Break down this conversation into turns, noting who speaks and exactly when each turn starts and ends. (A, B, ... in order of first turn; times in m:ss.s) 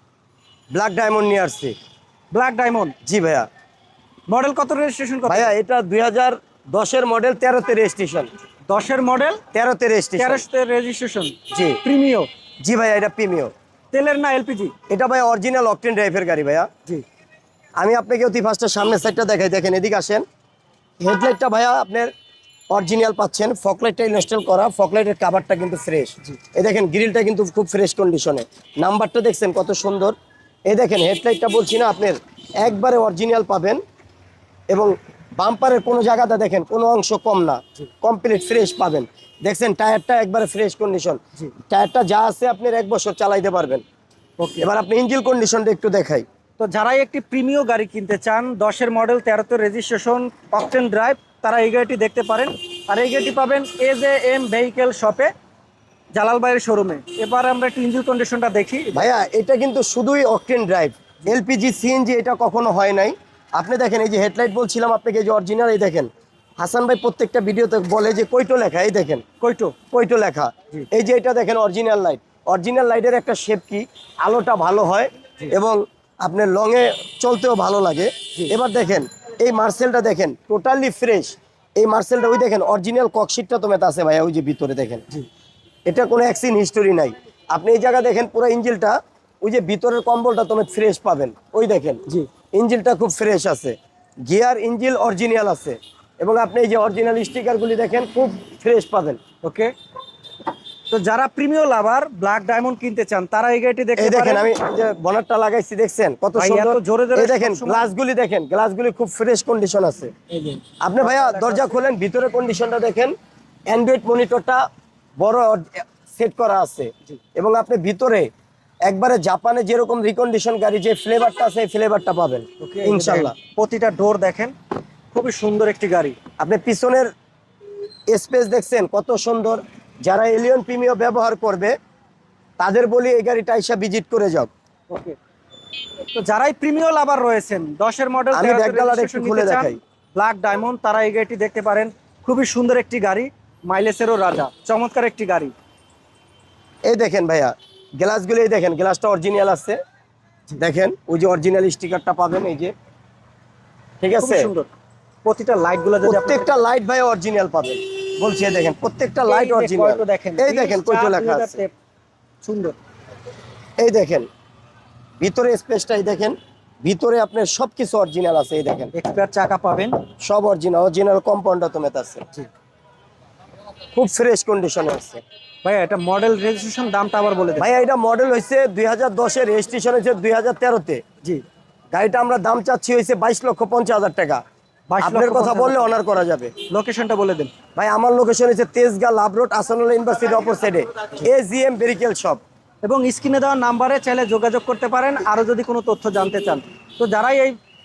0:00.7-0:01.7 A
0:02.3-0:02.9 B
0:03.0-0:03.5 A
0:04.3-0:05.5 B
0:05.2-0:08.3 A
0:08.7-0:09.4 B
0:09.5-0:10.4 A
0:10.2-0:12.3 B
0:11.5-0:11.8 A
0:12.6-0:13.5 A
0:13.9-0:14.7 B
0:14.9-0:16.7 A
0:17.8-0:20.2 A
0:21.0-0:22.1 A
0:22.7-0:30.1 A
0:30.7-0:33.8 A
0:34.7-0:43.8 A
0:44.4-0:44.7 B
0:44.6-0:46.2 A
0:46.6-0:55.3 B
0:56.1-0:59.1 B
0:58.9-1:09.2 A
1:09.4-1:09.8 B
1:09.9-1:25.0 A
1:25.9-1:39.2 A
1:39.4-1:39.7 B
1:40.9-1:44.5 B
1:44.0-1:50.1 A
1:46.4-1:47.9 B
1:50.3-1:51.8 B
1:50.8-1:53.1 A
1:53.7-1:54.6 A
1:55.2-1:58.3 A
1:58.8-2:03.3 A
2:02.6-2:04.5 B
2:05.1-2:06.2 B
2:06.4-2:07.1 A
2:08.1-2:11.8 A
2:12.6-2:14.5 A
2:14.9-2:15.2 B
2:16.1-2:25.5 B
2:18.3-2:19.8 A
2:26.9-2:29.8 A
2:30.6-2:32.7 A
2:34.0-2:34.5 A
2:34.2-2:34.7 B
2:35.2-2:36.5 B
2:36.0-2:41.6 A
2:39.2-2:41.7 B
2:42.4-2:42.8 B
2:43.8-2:44.3 A
2:45.2-2:48.9 A
2:48.9-2:50.0 B
2:50.2-2:52.2 A
2:53.9-2:55.2 A
2:55.6-2:57.7 B
2:57.6-3:01.0 A
3:01.9-3:04.4 A
3:04.9-3:05.9 B
3:05.0-3:06.5 A
3:06.7-3:07.5 B
3:07.8-3:12.4 A
3:12.8-3:17.6 B